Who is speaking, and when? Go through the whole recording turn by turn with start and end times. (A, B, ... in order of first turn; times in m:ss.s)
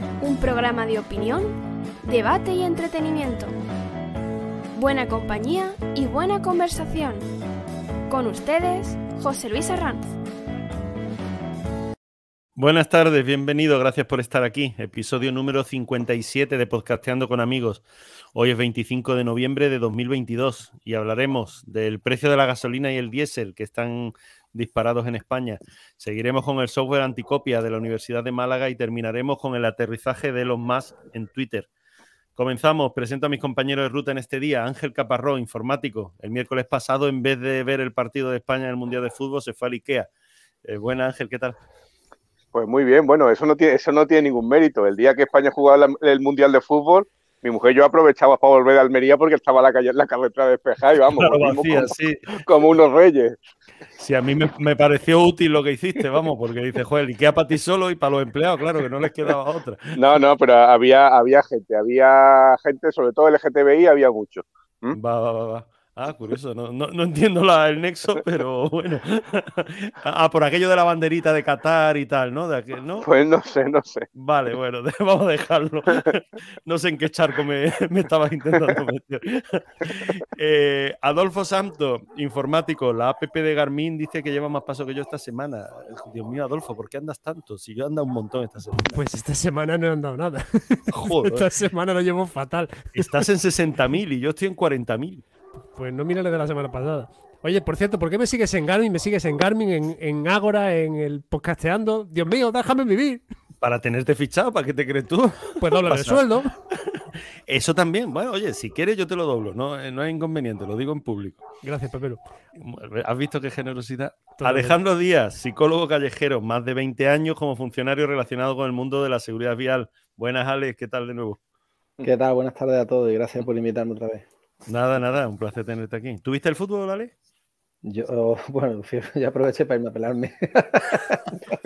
0:00.2-0:03.6 A
0:04.7-0:07.3 A
0:08.1-0:10.2 A
0:12.6-0:17.8 B
0:18.3-0:31.7 B
0:32.4-0:40.1 B
0:40.6-0:41.6 B
0:42.5-0:53.4 C
0:51.1-0:52.2 B
0:54.0-1:00.0 B
1:00.0-1:05.0 C
1:04.9-1:13.1 B
1:13.0-1:14.1 C
1:14.2-1:29.0 B
1:28.8-1:33.3 D
1:30.9-1:31.5 B
1:32.9-1:35.2 B
1:35.7-1:43.2 D
1:43.6-1:51.4 B
1:45.6-1:46.5 D
1:51.6-1:52.2 D
1:52.6-2:01.4 B
1:54.4-1:54.8 D
2:02.0-2:04.2 E
2:04.7-2:07.1 B
2:07.8-2:11.6 E